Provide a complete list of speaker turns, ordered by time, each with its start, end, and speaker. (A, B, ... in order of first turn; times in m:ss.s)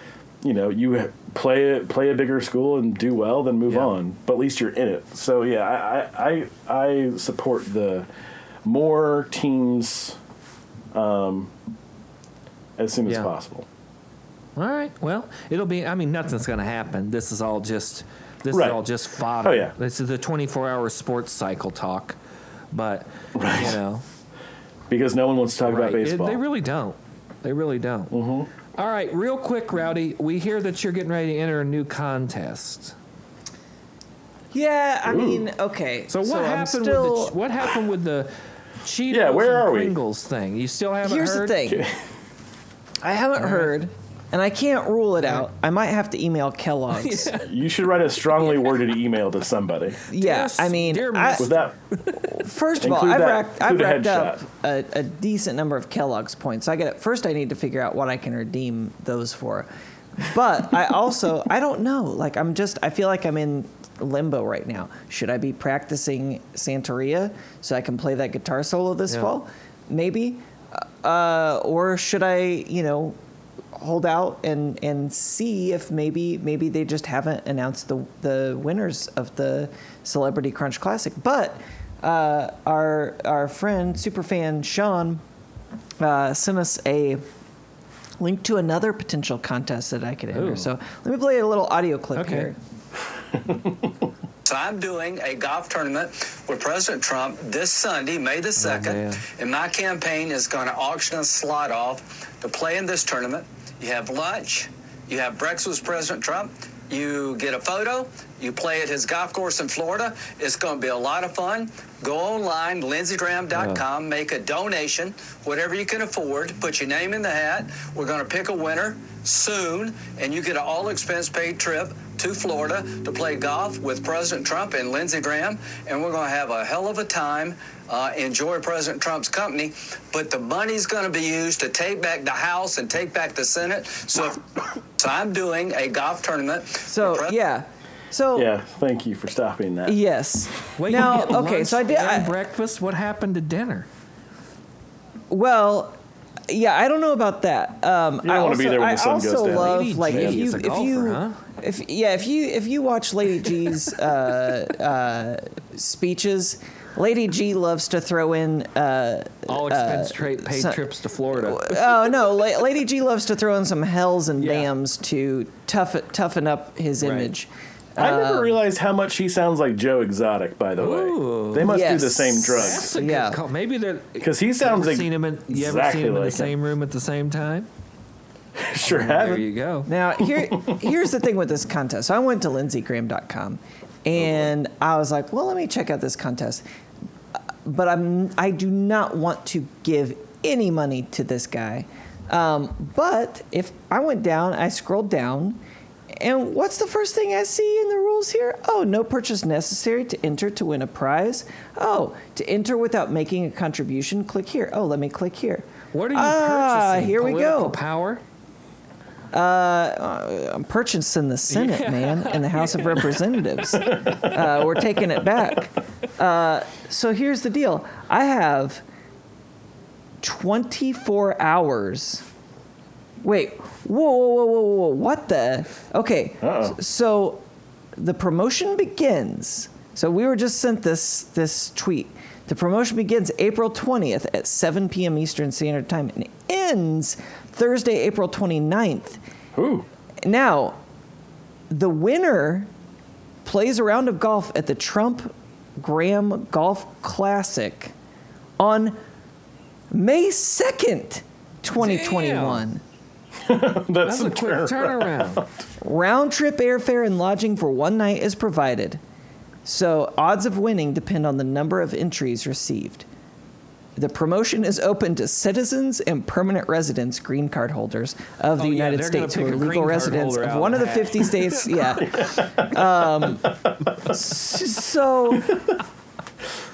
0:00.4-0:08.1 A
0:08.6-0:10.2 A
0:10.9-0:11.5 A
0:12.8-0:13.7 A
0:14.6-0:22.2 B
0:18.5-0:18.8 A
0:19.4-0:19.7 A
0:22.7-0:24.0 B
0:23.4-0:23.8 A
0:24.9-0:26.4 A
0:25.7-0:28.2 B
0:28.1-0:28.5 A
0:28.8-0:33.0 B
0:34.5-0:37.4 C
0:35.0-0:35.5 A
0:36.1-0:38.3 B
0:38.8-0:41.6 B
0:39.1-0:40.0 A
0:41.0-0:41.9 C
0:41.7-0:42.0 A
0:43.0-0:47.3 C
0:43.4-0:43.7 B
0:46.9-0:47.5 B
0:47.4-0:50.0 A
0:48.4-0:48.7 B
0:50.1-0:51.5 C
0:50.1-0:52.4 B
0:51.4-0:51.7 A
0:52.2-1:13.2 C
0:52.8-0:54.4 A
1:13.7-1:25.2 C
1:26.0-1:27.2 C
1:28.2-1:32.6 C
1:30.3-1:30.7 B
1:32.2-1:32.5 B
1:34.4-2:14.5 D
1:38.6-1:39.2 B
1:53.6-1:53.8 B
2:15.0-2:17.4 D
2:16.9-2:18.5 C
2:18.4-2:20.0 A
2:19.9-2:22.4 C
2:20.8-2:23.9 B
2:25.3-2:26.0 C
2:26.5-2:48.6 C
2:28.2-2:30.5 A
2:29.5-2:31.4 B
2:39.5-2:42.1 B
2:44.4-2:44.7 B
2:47.0-2:47.3 B
2:48.0-2:53.0 A
2:50.8-2:51.7 B
2:51.6-2:53.4 C
2:52.5-2:57.7 B
2:54.2-2:56.5 A
2:58.6-2:59.4 A
2:58.8-2:59.9 B
2:59.9-3:06.6 C
3:00.3-3:00.8 A
3:04.2-3:04.5 A
3:07.6-3:15.6 C
3:16.2-3:27.8 C
3:25.9-3:28.2 B
3:29.3-3:38.8 C
3:31.5-3:34.8 B
3:40.2-3:42.2 C
3:43.2-3:47.4 C
3:46.4-3:46.8 A
3:48.0-3:59.2 C
3:59.6-3:59.9 A
4:00.2-4:00.8 C
4:01.7-4:02.7 C
4:03.4-4:07.9 C
4:08.6-4:09.0 C
4:09.9-4:12.8 C
4:11.8-4:12.7 B
4:13.4-4:15.5 A
4:14.0-4:15.4 B
4:15.8-4:19.0 C
4:19.6-4:23.1 C
4:24.0-4:35.6 C
4:28.6-4:31.9 B